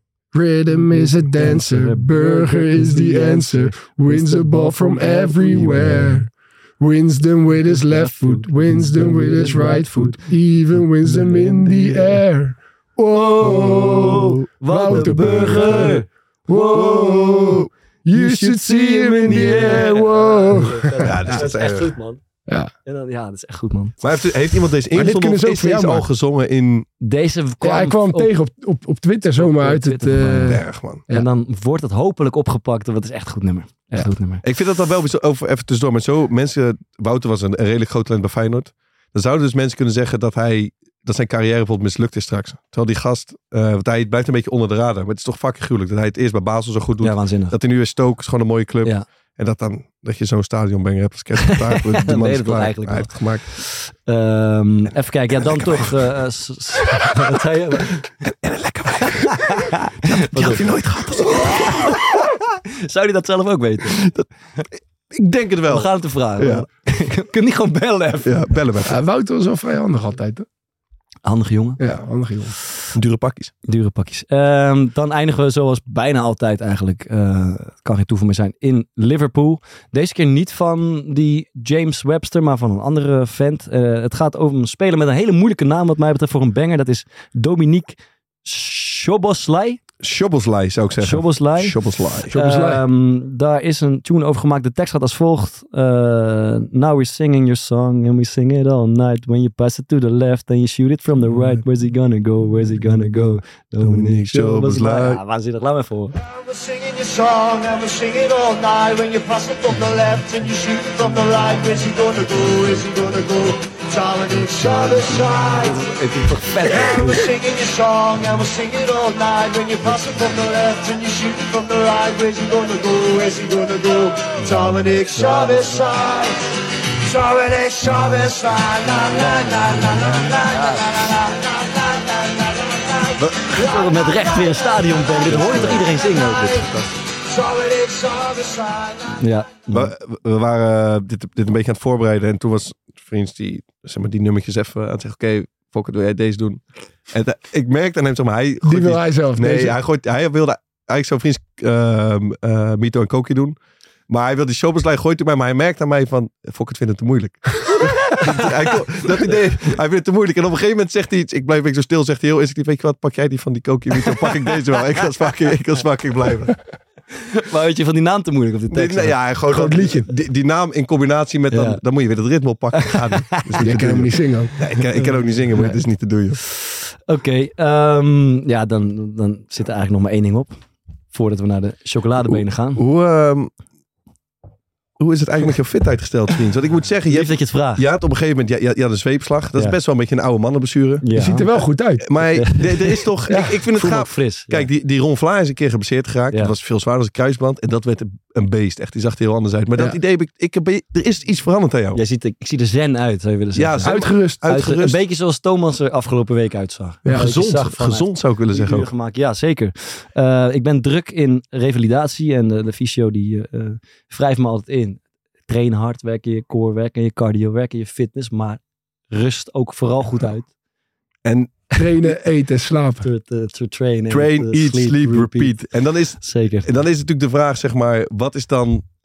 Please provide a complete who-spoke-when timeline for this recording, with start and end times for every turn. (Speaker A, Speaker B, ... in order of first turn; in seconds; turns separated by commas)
Speaker A: 0.3-21.4, Speaker B: 0.7-6.2, Speaker B: 7.6-10.2, Speaker B: 11.1-11.6, Speaker B: 13.4-17.4, Speaker C: 13.4-16.0, Speaker C: 16.6-17.7, Speaker B: 18.1-22.2, Speaker C: 21.0-21.9, Speaker B: 22.8-24.0, Speaker C: 24.0-26.9, Speaker A: 24.9-26.1, Speaker B: 27.0-28.3, Speaker A: 27.6-31.3, Speaker B: 29.4-34.4, Speaker C: 30.4-31.0, Speaker C: 34.4-53.5, Speaker B: 47.0-47.6, Speaker B: 51.4-58.1, Speaker C: 55.4-56.0, Speaker C: 58.2-62.3, Speaker B: 59.0-60.7, Speaker B: 61.2-64.0, Speaker C: 63.9-64.3, Speaker C: 65.1-66.7, Speaker B: 65.7-68.5, Speaker C: 68.2-69.0, Speaker A: 68.9-70.5, Speaker B: 71.2-71.8, Speaker A: 71.8-72.5, Speaker C: 72.9-73.5, Speaker B: 73.7-89.8, Speaker C: 90.0-92.3, Speaker B: 91.0-106.2, Speaker A: 92.3-92.8, Speaker C: 103.8-105.2, Speaker D: 106.2-115.9, Speaker B: 115.2-117.3, Speaker D: 116.6-126.4, Speaker B: 125.1-125.7, Speaker D: 127.0-136.6, Speaker B: 129.0-130.9, Speaker B: 133.5-136.7, Speaker C: 135.2-136.9, Speaker D: 137.2-139.2, Speaker B: 139.2-139.9, Speaker C: 139.7-153.6, Speaker A: 148.6-149.7, Speaker C: 154.1-166.5, Speaker B: 158.1-158.5, Speaker B: 164.1-164.8, Speaker B: 167.3-169.6, Speaker C: 168.7-176.4, Speaker A: 169.5-170.1, Speaker B: 171.5-171.8, Speaker B: 172.8-173.6, Speaker A: 173.6-174.5, Speaker B: 174.9-175.8, Speaker B: 176.4-180.6, Speaker B: 181.1-182.8, Speaker C: 182.2-183.5, Speaker C: 185.0-191.1, Speaker B: 187.1-187.8, Speaker B: 191.0-191.5, Speaker A: 191.1-192.1, Speaker C: 192.0-202.0, Speaker B: 192.3-194.7, Speaker A: 193.3-193.6, Speaker B: 201.9-220.5, Speaker C: 203.5-205.0, Speaker A: 203.8-204.4, Speaker C: 207.1-208.9, Speaker C: 221.2-222.1, Speaker A: 221.8-223.1, Speaker B: 223.0-225.6, Speaker C: 224.1-228.8, Speaker B: 226.2-226.7